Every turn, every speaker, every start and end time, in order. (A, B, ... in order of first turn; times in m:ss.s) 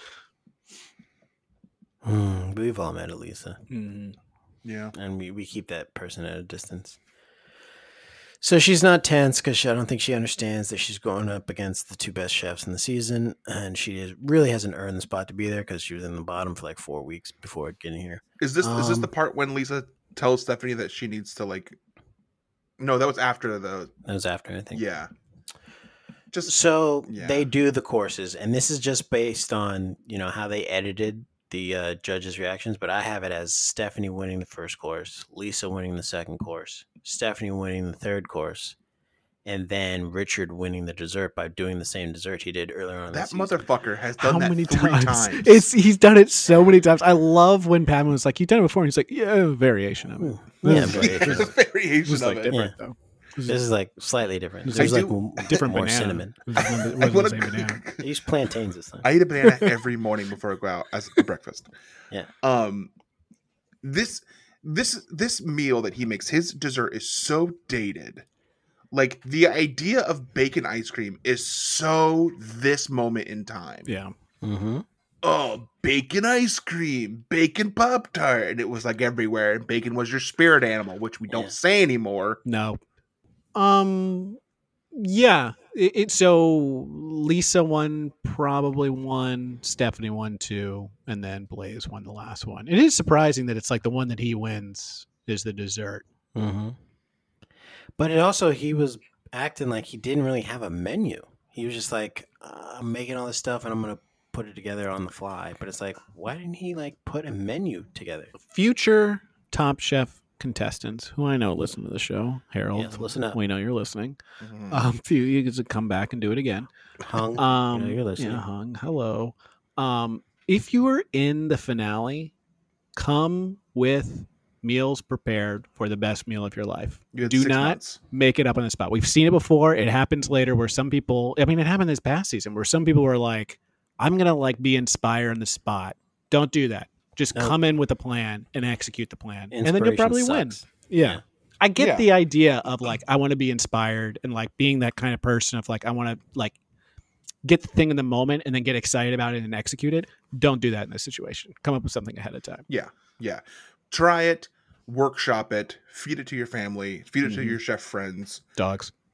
0:02.0-0:03.6 A
0:03.7-0:04.2 B
0:04.6-0:04.9 C
0:04.9-0:07.0 A
0:08.4-0:19.1 A
0:18.4-0:21.8 C
0:22.8-0:23.9 C
0:24.0-0:24.8 A
0:24.7-0:25.1 C
0:26.3-0:27.5 C
0:26.4-0:38.8 A
0:39.5-0:43.6 A
0:43.1-0:45.7 C
0:44.2-0:51.5 B
0:50.2-0:51.6 A
0:50.7-0:52.6 C
0:52.0-0:53.6 B
0:53.5-0:56.4 A
0:54.6-0:57.8 B
0:54.8-0:55.2 C
0:56.8-0:58.1 C
0:58.0-0:59.1 A
0:59.0-1:01.7 C
1:02.4-1:02.9 C
1:03.8-1:08.2 C
1:08.9-1:13.9 C
1:13.9-1:14.1 B
1:14.4-1:14.8 A
1:15.2-1:22.4 C
1:21.3-1:21.6 A
1:22.4-1:22.8 B
1:23.6-1:24.4 B
1:24.9-1:36.0 B
1:36.4-1:36.8 A
1:38.0-1:48.3 A
1:48.4-1:54.2 B
1:52.7-1:53.4 A
1:54.4-1:54.9 C
1:54.7-1:56.7 B
1:57.0-1:58.4 A
1:57.4-2:02.3 B
2:03.0-2:26.6 B
2:07.1-2:08.0 C
2:19.5-2:21.2 A
2:21.8-2:22.1 C
2:27.4-2:32.7 B
2:32.7-2:38.4 C
2:37.2-2:37.6 B
2:38.6-2:38.9 B